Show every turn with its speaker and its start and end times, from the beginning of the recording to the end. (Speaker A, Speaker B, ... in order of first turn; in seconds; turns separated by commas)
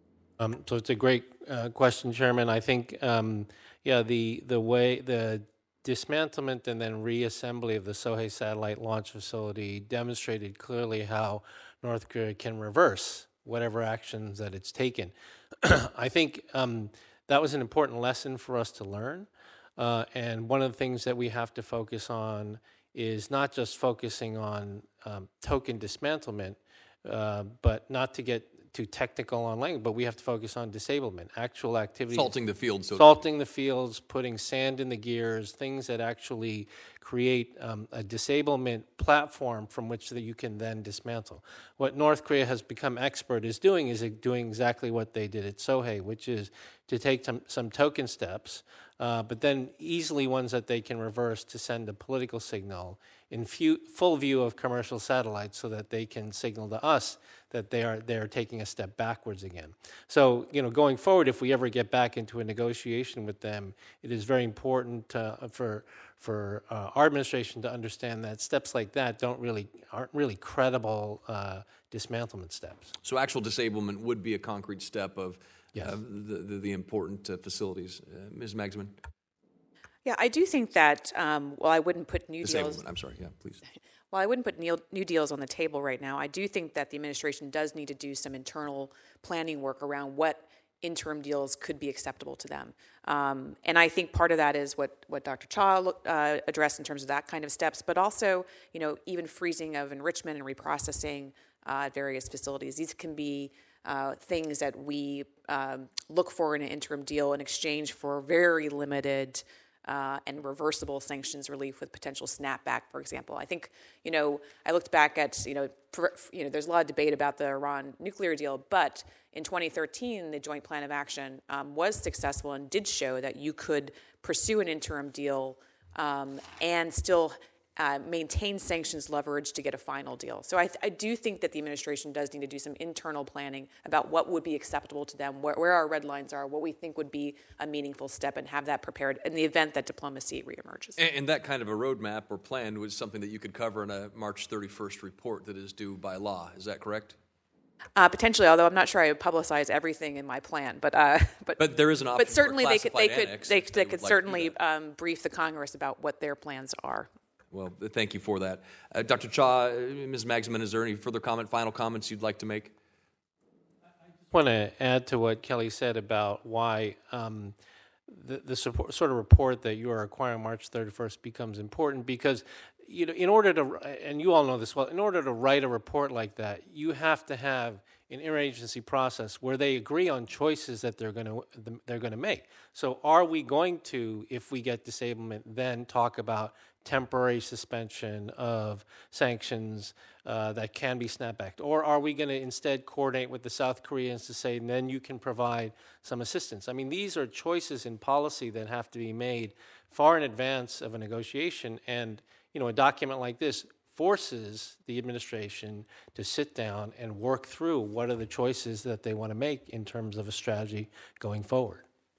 Speaker A: 0.4-32.3, Speaker B: 32.1-33.1, Speaker A: 32.9-72.9, Speaker B: 73.0-79.0, Speaker C: 80.0-82.8, Speaker B: 82.4-83.6, Speaker C: 84.1-141.0, Speaker B: 141.0-147.2, Speaker C: 147.9-157.1, Speaker B: 151.6-154.5, Speaker B: 157.5-162.7, Speaker A: 164.3-167.5, Speaker A: 168.1-211.8